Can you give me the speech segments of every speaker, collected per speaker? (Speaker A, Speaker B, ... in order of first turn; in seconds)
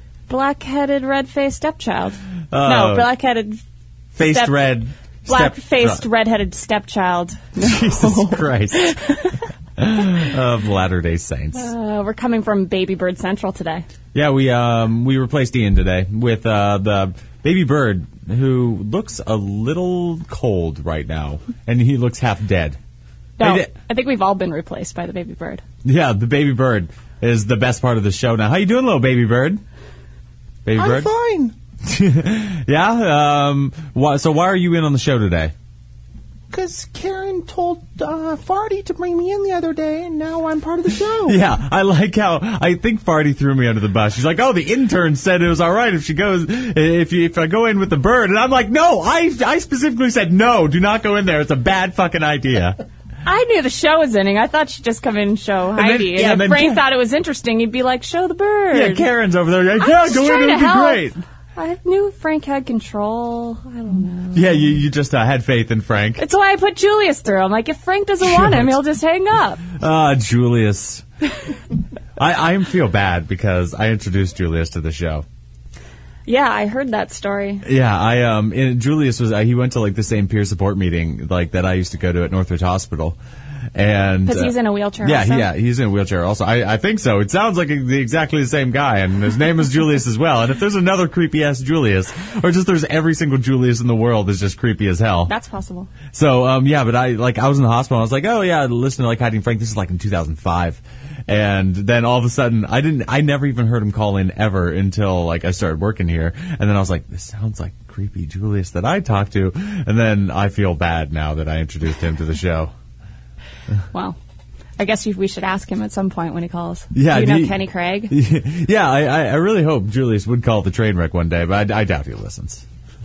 Speaker A: 0.3-3.6, 4.2-4.6, 5.3-9.4, 11.5-13.8, 23.4-25.6, 53.2-59.0, 59.8-64.7, 66.2-69.6, 76.2-77.7, 84.2-85.5, 95.3-95.9, 113.9-114.2, 114.8-118.1
Speaker B: 2.5-3.1, 4.2-6.0, 7.6-8.9, 9.8-11.7, 14.1-22.8, 23.4-23.7, 25.8-29.6, 30.6-31.1, 31.8-35.5, 41.2-52.8, 55.7-56.9, 58.7-61.2, 64.3-66.2, 68.2-68.8, 69.7-71.0, 72.2-75.2, 77.6-83.2, 83.7-95.3, 96.1-112.7, 116.9-122.6
Speaker C: 30.8-31.5, 36.5-41.4